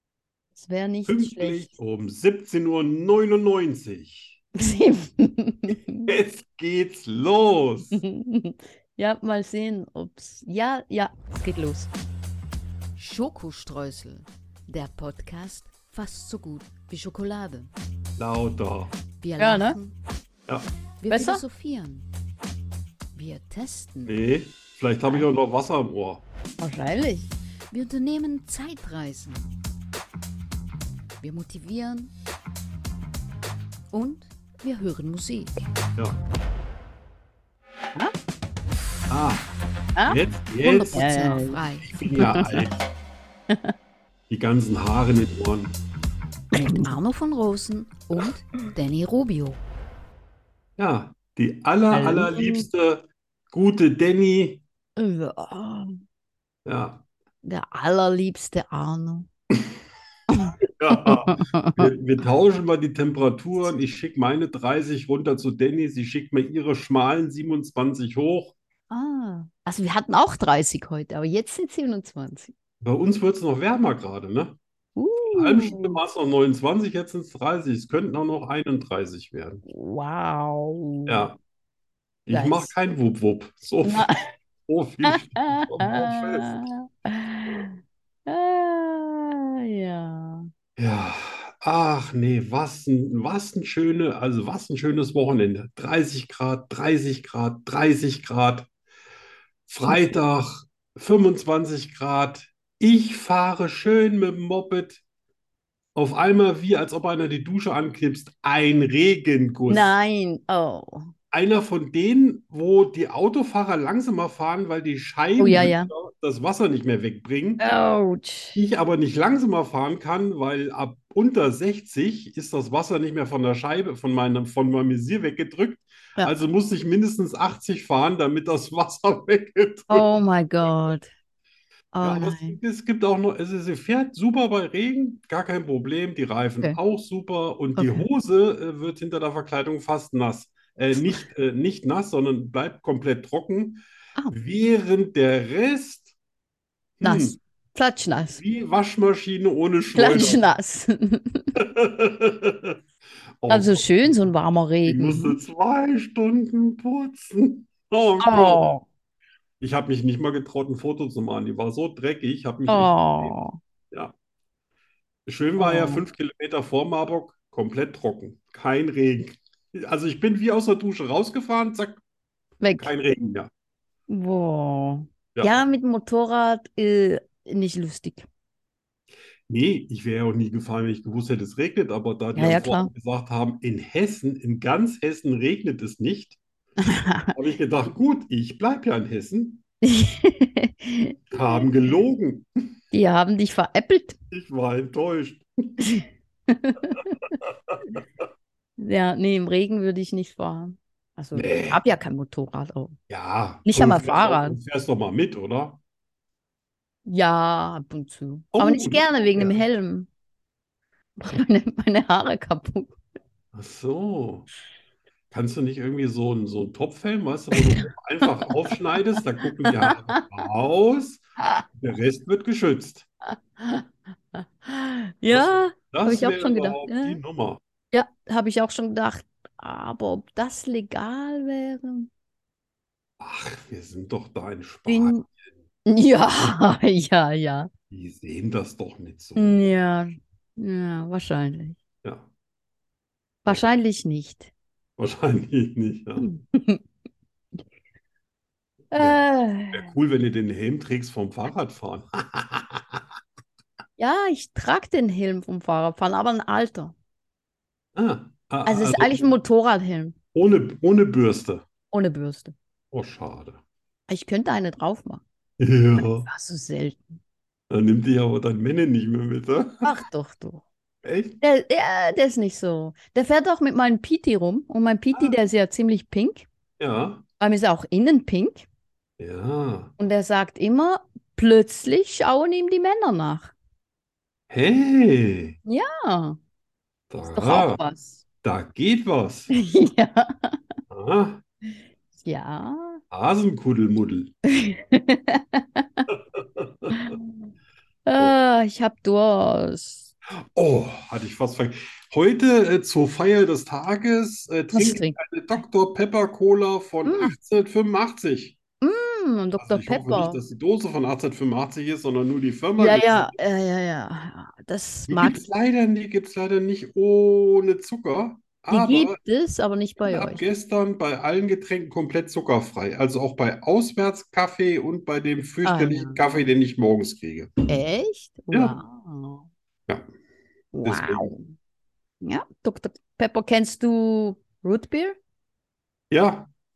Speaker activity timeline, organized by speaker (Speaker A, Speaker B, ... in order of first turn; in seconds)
Speaker A: 0.5-1.7, 4.6-6.1, 7.9-11.9, 19.4-19.8, 21.1-21.4, 26.6-27.3, 40.0-42.6, 46.5-46.8, 51.9-52.7, 55.0-55.9, 57.4-59.3, 60.3-61.8, 68.9-72.5, 75.0-76.0, 79.7-81.3, 82.3-82.7, 83.8-84.1, 85.0-90.5, 109.7-111.1, 115.4-115.9, 117.6-118.6, 129.9-131.1, 131.9-132.6, 137.8-138.0, 147.0-148.4, 149.9-151.6, 153.5-155.4, 158.2-158.8, 162.7-163.6, 165.6-166.0, 172.6-172.9, 174.1-178.3, 182.3-182.9, 186.8-187.3, 189.8-191.6, 192.9-194.2, 195.8-197.2, 198.8-203.0, 203.6-204.6, 207.1-210.1, 211.2-212.9, 217.5-217.9, 219.6-220.2, 223.3-227.2, 227.9-232.1, 234.9-235.2, 235.8-237.7, 239.3-241.8, 243.4-244.5, 246.2-246.8, 248.9-249.9, 254.0-256.9, 258.6-260.1, 261.9-262.5, 264.1-265.2, 266.0-267.1, 269.8-270.6, 271.4-276.5, 277.4-278.7, 280.0-283.5, 285.6-286.4, 287.3-288.2, 289.5-290.6, 292.2-293.0, 294.5-296.1, 296.9-297.3, 298.1-300.1, 304.7-305.2, 307.0-307.3, 308.8-310.4, 312.8-315.4, 318.7-320.4, 325.6-326.2, 327.7-329.4, 330.7-331.5, 332.2-335.2
Speaker B: 1.1-4.4, 6.0-8.0, 18.2-18.9, 24.1-26.2, 39.1-39.4, 40.0-41.0, 41.8-42.9, 44.3-45.7, 50.8-54.6, 56.6-57.0, 60.8-68.5, 72.8-74.6, 75.3-79.6, 81.1-81.4, 82.3-84.1, 84.7-86.5, 90.8-98.7, 99.7-105.0, 105.9-109.9, 111.3-117.6, 118.5-130.1, 132.0-146.1, 147.0-147.4, 148.3-150.4, 151.6-152.8, 153.4-154.3, 154.8-158.6, 159.6-163.4, 165.2-172.0, 172.8-173.5, 179.5-186.4, 187.3-189.6, 191.3-192.5, 194.3-195.4, 201.3-201.8, 203.1-205.8, 208.5-209.6, 213.5-214.5, 215.3-223.1, 225.3-227.6, 233.2-235.4, 237.9-239.6, 245.0-246.3, 249.7-253.0, 257.9-259.3, 260.3-261.6, 262.9-263.6, 265.6-266.3, 267.7-269.9, 271.0-271.4, 276.8-277.2, 279.2-279.9, 284.5-285.6, 287.1-287.8, 288.4-289.5, 290.9-291.4, 293.1-294.3, 296.1-296.9, 300.5-308.6, 309.6-313.4, 315.1-319.2, 320.0-327.6, 328.5-328.8, 330.8-331.3, 336.1-336.5
Speaker C: 13.0-17.7, 19.2-19.9, 21.0-22.1, 23.1-24.1, 27.7-29.5, 31.2-32.1, 33.9-35.6, 40.9-41.9, 46.6-49.6